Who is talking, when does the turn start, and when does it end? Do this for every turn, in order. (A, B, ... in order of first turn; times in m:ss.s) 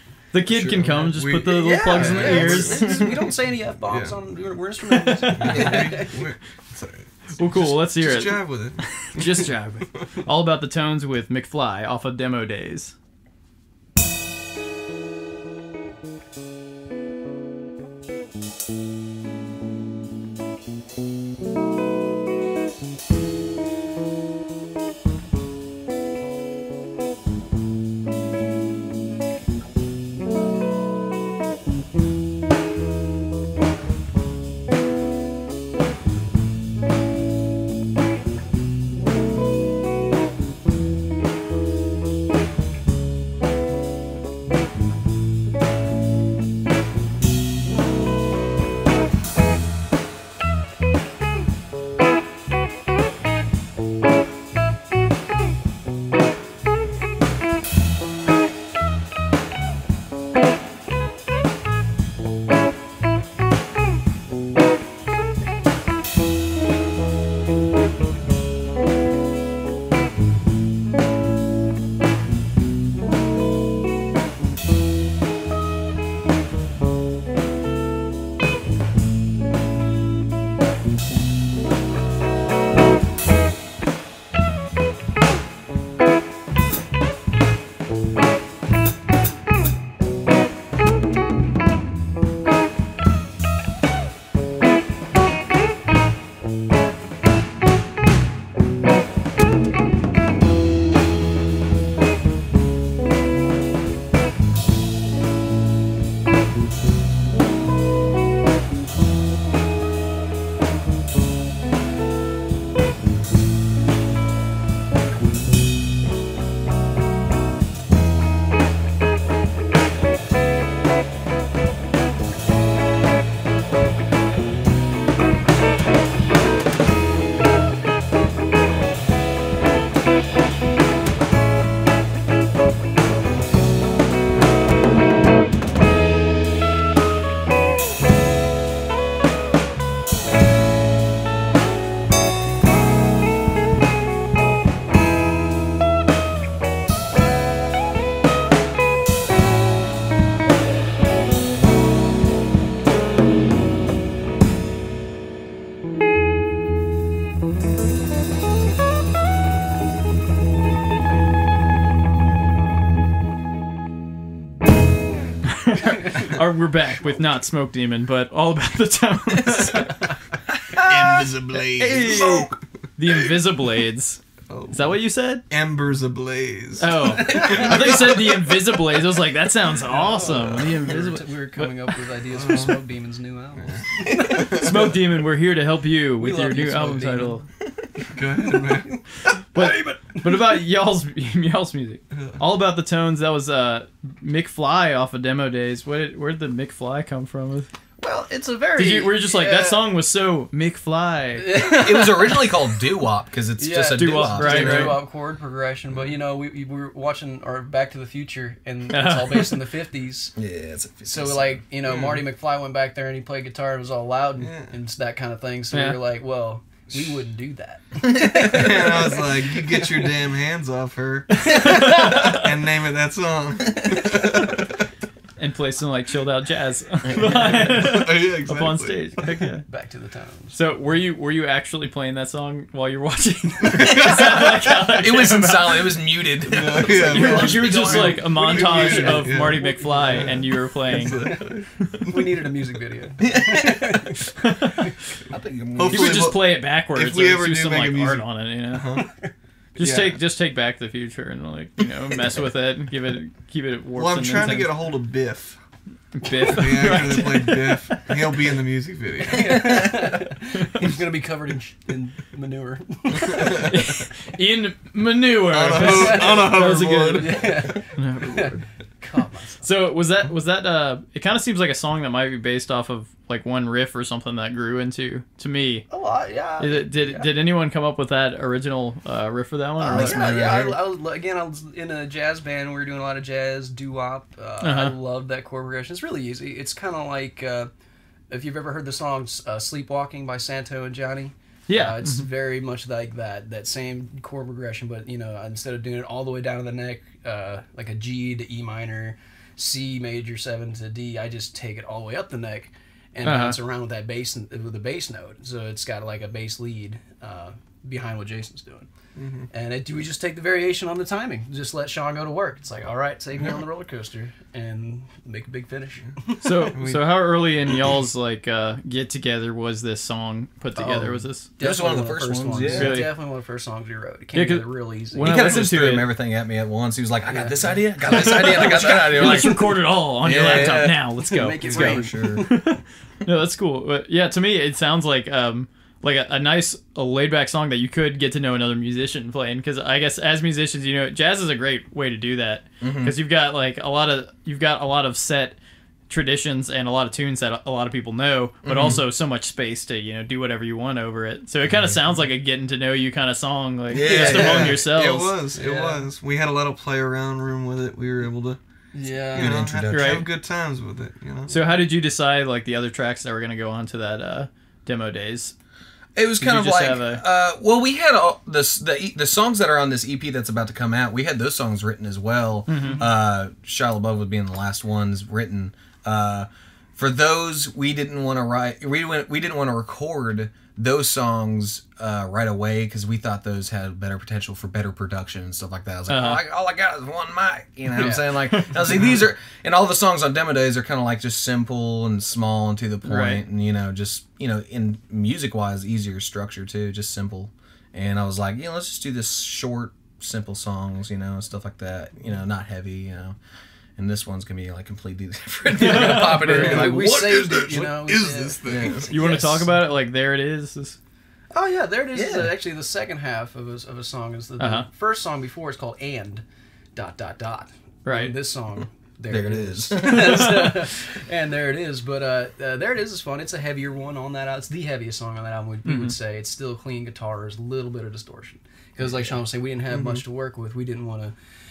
0:00.3-0:03.0 A
0:00.5-0:00.8 B
0:00.7-0:03.1 C
0:01.6-0:06.1 D
0:02.8-0:03.3 B
0:03.9-0:04.2 C
0:04.9-0:05.9 A
0:05.4-0:09.5 C
0:05.5-0:05.8 B
0:07.4-0:12.9 A
2:45.6-2:50.0 A
2:50.7-2:52.5 B
2:50.7-2:52.5 C
2:51.8-2:55.4 A
2:54.5-2:55.0 C
2:55.5-2:58.5 C
2:56.8-3:01.7 A
2:59.9-3:04.8 D
3:02.3-3:02.8 C
3:03.6-3:04.8 C
3:04.1-3:07.4 A
3:06.2-3:07.4 D
3:08.1-3:09.0 C
3:08.4-3:09.0 D
3:09.5-3:17.7 A
3:09.5-3:10.5 D
3:12.1-3:12.4 C
3:18.0-3:19.9 D
3:18.8-3:21.6 A
3:21.4-3:22.8 D
3:21.5-3:25.0 B
3:23.6-3:30.3 D
3:23.9-3:25.0 A
3:28.9-3:29.6 A
3:30.4-3:31.6 B
3:31.0-3:40.1 D
3:31.8-3:32.2 C
3:34.4-3:34.7 C
3:35.7-3:36.0 A
3:38.0-3:38.4 B
3:38.4-3:44.7 C
3:41.4-3:42.4 A
3:45.4-3:49.6 A
3:47.1-3:49.3 C
3:49.7-3:50.6 D
3:50.5-3:56.0 A
3:53.7-3:54.5 C
3:53.9-3:58.2 B
3:56.5-4:02.2 C
3:56.8-4:02.0 A
3:57.0-4:00.3 D
4:01.0-4:04.3 D
4:03.2-4:04.0 B
4:04.4-4:05.0 A
4:05.2-4:06.3 B
4:05.8-4:09.1 C
4:05.9-4:09.0 A
4:09.0-4:09.3 D
4:09.8-4:14.8 A
4:09.8-4:10.2 C
4:14.0-4:15.6 C
4:16.1-4:18.4 A
4:16.4-4:19.9 C
4:19.2-4:23.9 D
4:23.2-4:23.7 C
4:23.6-4:28.6 A
4:25.5-4:27.4 C
4:25.8-4:26.6 D
4:27.2-4:29.6 D
4:29.6-4:35.9 A
4:35.9-4:37.3 D
4:36.6-4:40.2 A
4:39.8-4:47.7 D
4:39.9-4:40.8 B
4:44.6-4:44.9 A
4:48.3-5:08.9 D
4:51.7-4:52.2 A
5:03.2-5:03.6 A
5:09.2-5:09.5 C
5:09.5-5:16.8 D
5:16.4-5:21.5 A
5:16.7-5:17.3 C
5:20.8-5:25.5 D
5:21.6-5:23.0 B
5:22.7-5:23.1 A
5:24.3-5:26.1 A
5:25.2-5:31.0 B
5:27.3-5:29.7 D
5:28.0-5:45.6 A
5:31.2-5:32.8 D
5:31.6-5:32.5 B
5:42.8-5:43.2 B
5:46.1-5:55.4 A
5:48.6-5:49.0 B
5:51.7-5:52.0 B
5:53.9-5:54.8 B
5:54.0-5:58.6 C
5:55.5-5:56.0 D
5:58.9-5:59.6 D
5:59.4-6:00.2 B
5:59.4-6:01.6 C
5:59.9-6:00.3 A
6:01.5-6:05.5 A
6:06.1-6:43.4 B
6:06.4-6:07.2 A
6:12.7-6:13.1 A
6:12.7-6:13.1 D
6:26.1-6:26.4 A
6:27.9-6:29.0 A
6:33.0-6:33.4 A
6:44.0-6:47.8 B
6:45.8-6:46.9 A
6:46.2-6:49.7 D
6:46.6-6:49.1 C
6:48.6-6:49.1 B
6:49.1-6:51.0 A
6:51.5-6:56.4 D
6:52.1-6:52.5 B
6:54.6-6:54.9 A
6:56.9-7:11.3 D
6:58.1-6:58.4 A
6:59.3-7:00.6 B
7:00.0-7:00.7 A
7:05.8-7:06.1 A
7:09.0-7:09.3 B
7:09.9-7:10.2 C